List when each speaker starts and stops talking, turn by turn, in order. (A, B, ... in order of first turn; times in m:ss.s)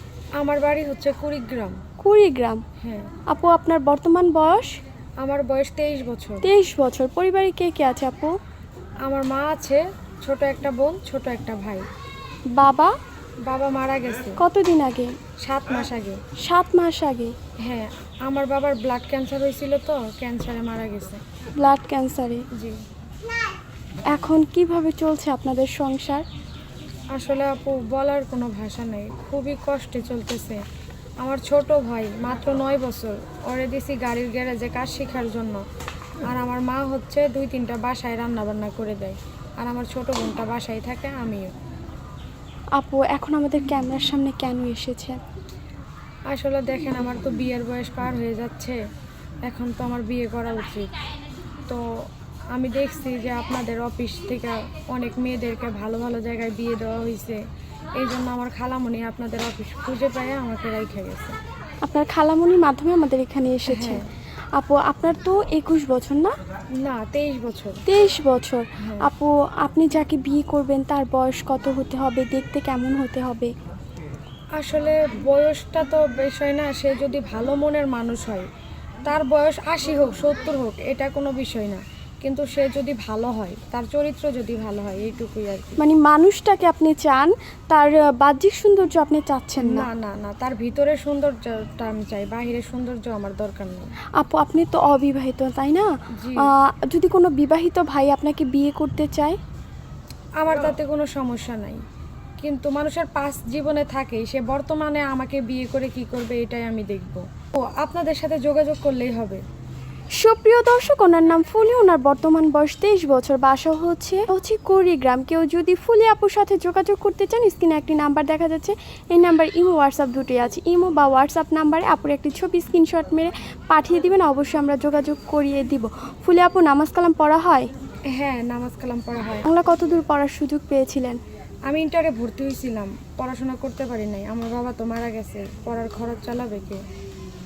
0:00.4-0:01.8 A
0:02.0-0:02.6 B
0:02.8-0:03.1 A
0:03.3-0:04.7 B
0:05.2-0:06.4 A
0:06.4-0:08.3 B
0:09.0-0:11.9 A
0:12.5-0:12.9 B
0:13.4-0:14.4 A
0:14.4-0:15.1 B
0:15.4-0:16.2 A
0:16.4-0:17.3 B
0:17.6-0:21.2 A
0:21.6-0:22.4 B
0:24.1-0:26.2 B
0:27.1-0:30.6 A
0:31.2-0:35.6 A
0:36.2-0:41.5 A
0:42.8-0:45.2 B
0:46.3-0:48.8 A
0:49.4-0:50.9 A
0:52.5-0:57.4 A
0:57.9-1:01.4 A
1:01.8-1:04.0 B
1:03.7-1:04.1 A
1:04.5-1:06.3 B
1:06.8-1:07.8 A
1:07.8-1:13.5 B
1:08.8-1:09.1 A
1:14.6-1:18.4 A
1:19.0-1:25.8 A
1:25.8-1:29.9 B
1:29.6-1:33.9 A
1:34.2-1:35.9 B
1:36.2-1:36.5 A
1:36.4-1:39.4 B
1:40.4-1:41.8 A
1:42.4-1:49.4 A
1:50.2-2:07.7 B
2:08.1-2:09.5 A
2:09.4-2:11.2 B
2:11.7-2:16.8 A